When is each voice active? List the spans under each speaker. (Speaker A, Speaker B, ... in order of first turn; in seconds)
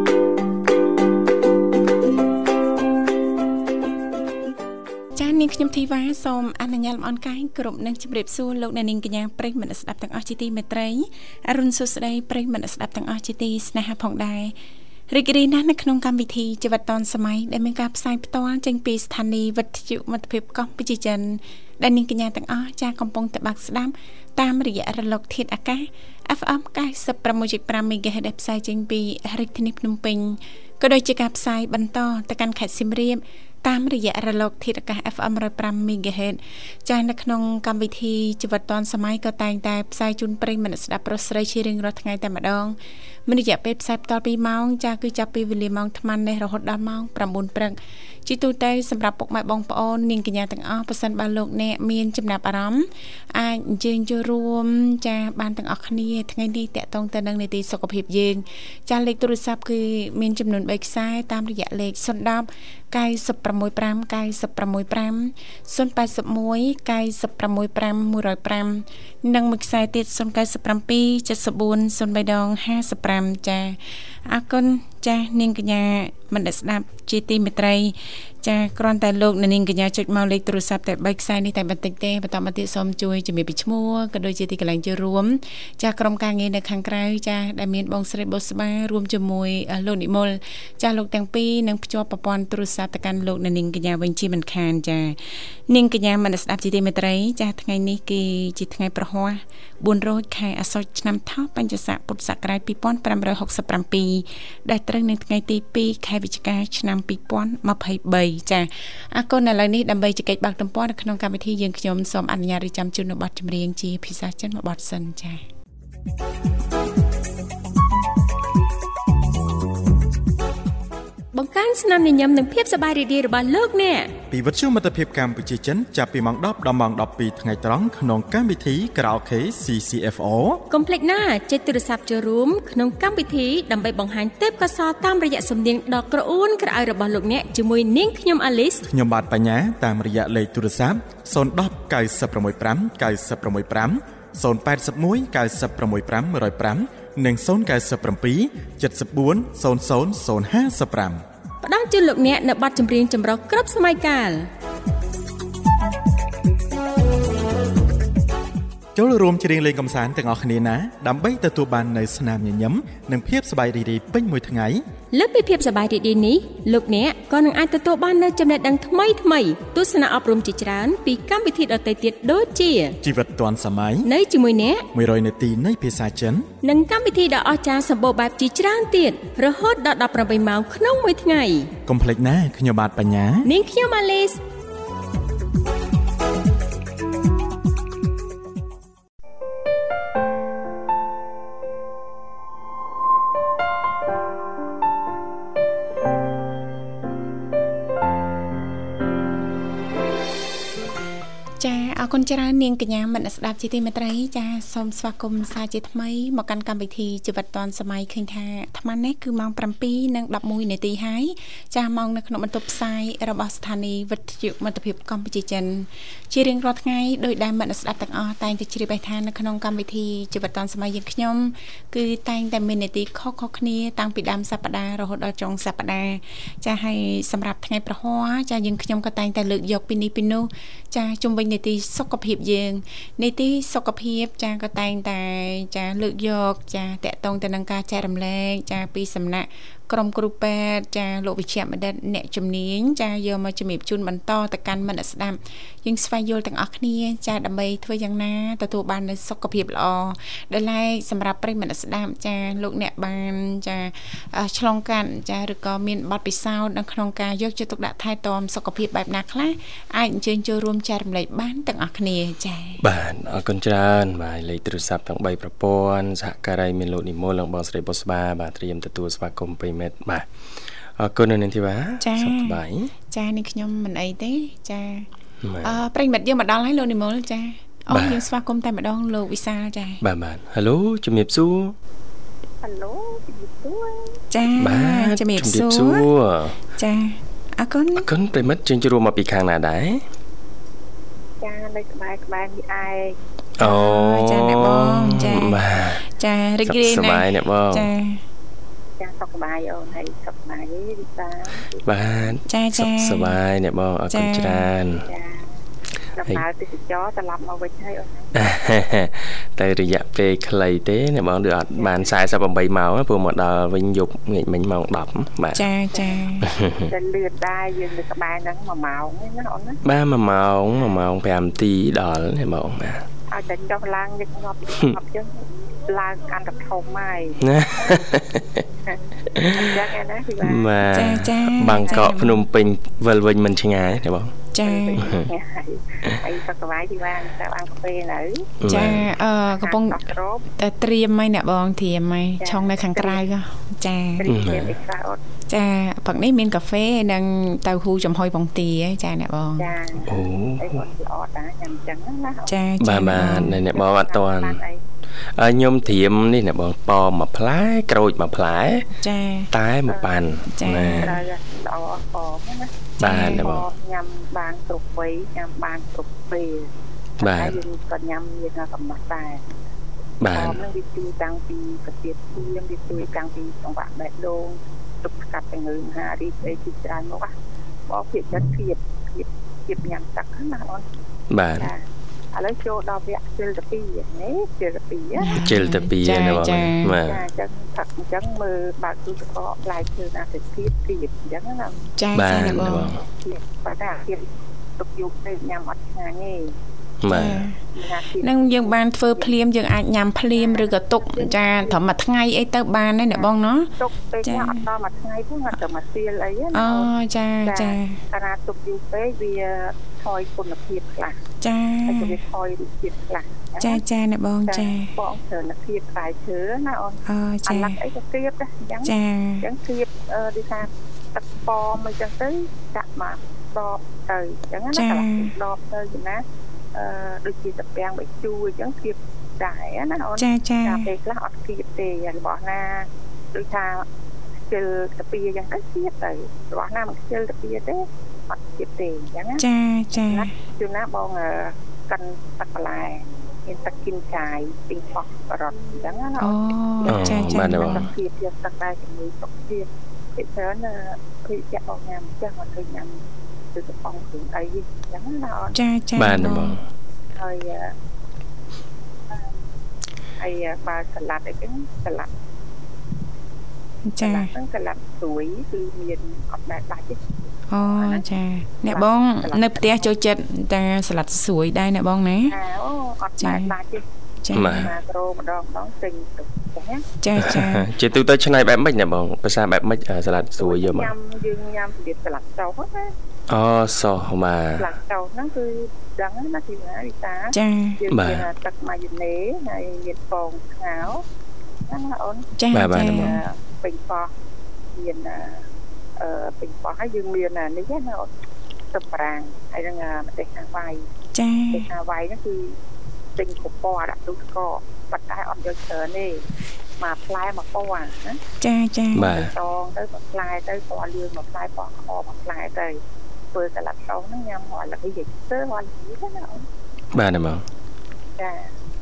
Speaker A: 5.1-14.6, 15.1-115.4, 201.6-262.8, 272.0-275.1, 275.6-280.0, 284.3-286.1, 286.8-288.1, 293.6-298.2, 302.4-303.4, 304.1-304.7, 315.5-316.5, 330.9-332.4, 334.5-335.1, 338.7-344.3, 345.5-349.7, 352.5-353.6, 359.0-359.5, 360.6-361.2, 363.0-363.5, 385.2-387.0, 392.0-392.9, 397.1-397.6, 398.2-403.7, 404.2-404.6, 406.5-408.0, 411.4-412.2, 413.6-414.9, 417.1-417.8, 418.9-419.4, 424.7-425.3, 430.2-430.9, 439.4-440.3, 446.2-447.9, 455.5-456.6, 463.9-464.3, 467.5-472.4, 473.2-473.5, 474.2-474.7, 477.0-477.7, 487.3-487.8, 492.4-493.2, 501.1-501.7, 508.4-509.2
Speaker B: 121.3-124.2, 130.7-138.8, 151.6-154.5, 165.1-173.0, 174.0-174.8, 176.6-181.7, 183.4-184.4
Speaker C: 124.3-130.6, 138.9-151.2, 158.9-164.8, 173.0-174.1, 174.9-176.5, 181.9-183.5
Speaker D: 262.8-270.2, 271.0-272.9, 275.4-275.8, 277.9-278.2, 280.0-281.8, 284.6-286.6, 287.9-290.0, 293.6-296.1, 296.6-297.9, 301.9-305.1, 308.4-315.7, 316.4-316.9, 319.8-323.0, 327.4-328.6, 329.3-329.8, 330.4-334.4, 335.0-335.3, 338.6-339.1, 344.3-344.8, 350.1-350.8, 352.8-354.6, 355.4-358.9, 359.5-361.2, 363.0-363.6, 367.2-367.6, 370.2-370.6, 381.3-381.7, 385.3-387.2, 392.1-393.0, 397.0-397.4, 446.9-447.9, 455.9-456.6, 474.3-474.7, 477.2-480.9, 483.3-484.7, 487.9-488.3, 492.5-493.2, 508.9-509.3, 516.9-517.4
Speaker E: 282.6-284.2, 291.4-293.2, 299.0-302.3, 304.9-305.5, 306.1-308.4, 311.8-312.1, 315.9-319.8, 323.3-328.0, 328.9-330.7, 331.8-332.1, 334.6-338.7, 339.5-340.5, 342.4-343.2, 344.2-345.2, 349.6-352.6, 353.2-354.8, 359.9-360.3, 361.0-369.6, 370.2-377.3, 377.9-380.9, 381.6-381.8, 382.3-385.4, 387.0-391.9, 393.1-396.6, 397.7-399.3, 400.3-401.8, 403.1-406.9, 407.4-411.2, 411.9-413.8, 414.5-433.9, 434.5-453.0, 453.5-455.6, 457.1-457.7, 459.1-459.4, 460.2-462.1, 464.0-468.0, 468.7-469.9, 472.2-473.9, 474.4-476.9, 480.4-482.9, 484.6-491.1, 491.7-494.1, 494.7-495.4, 496.0-498.1, 498.7-500.9, 501.5-502.6, 503.2-506.2, 506.8-508.2, 509.0-512.8, 513.3-516.5, 518.2-518.5